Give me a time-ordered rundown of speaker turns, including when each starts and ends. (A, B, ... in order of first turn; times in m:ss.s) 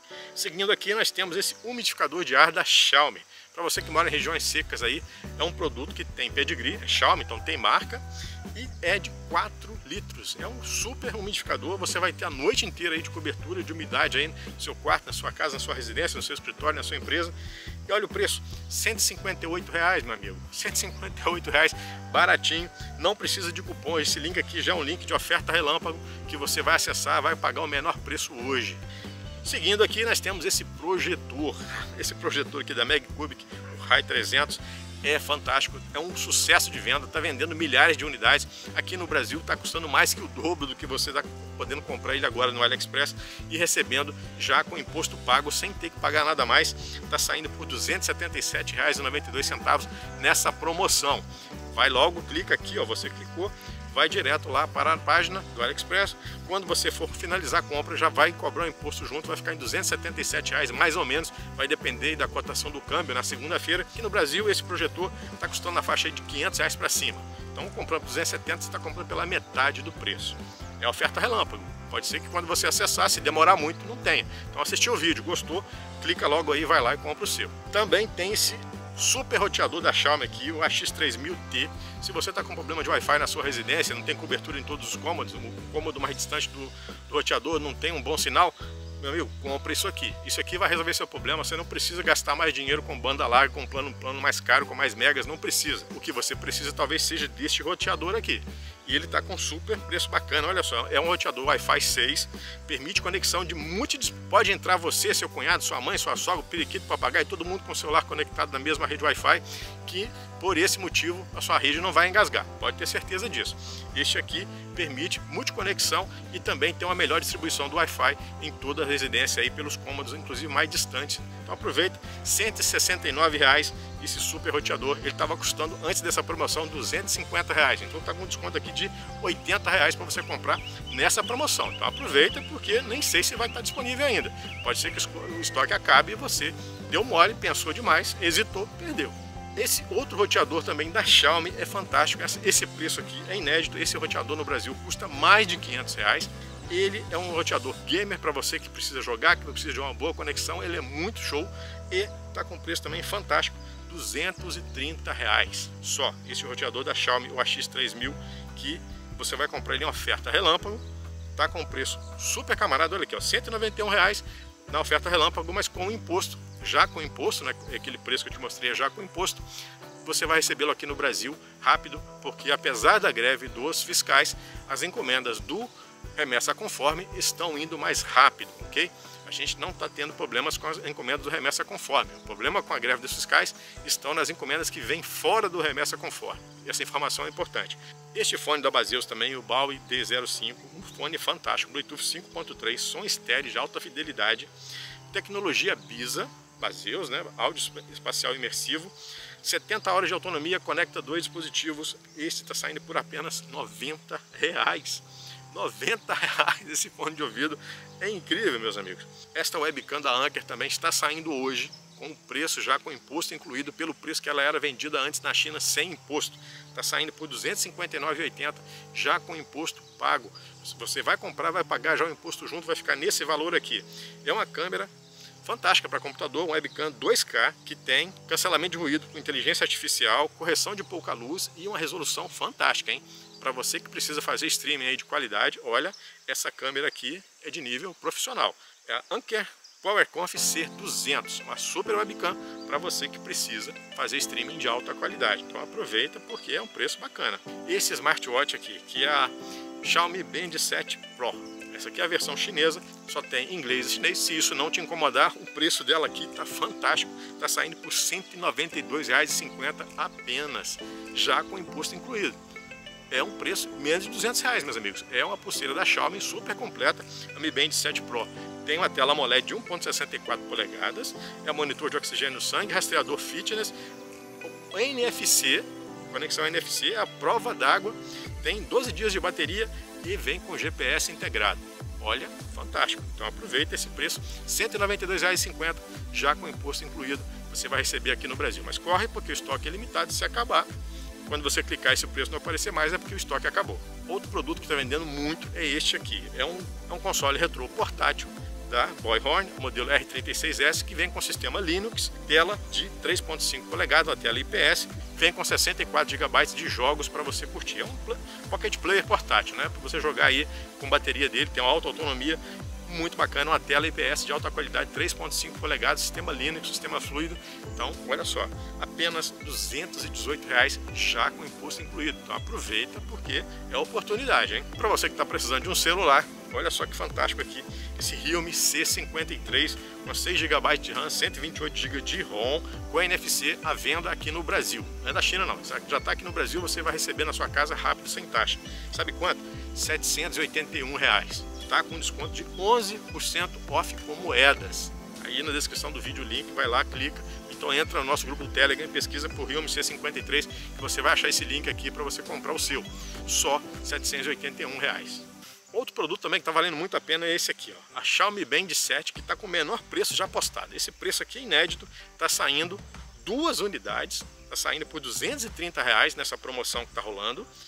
0:00.3-0:17.3 A
0:17.9-0:28.8 A
0:29.4-2:40.8 A
2:41.4-2:49.4 A
2:50.0-3:14.5 A
3:15.1-3:44.9 A
3:45.4-4:22.4 A
4:23.1-4:33.7 A
4:34.4-4:50.7 A
4:51.2-6:07.5 A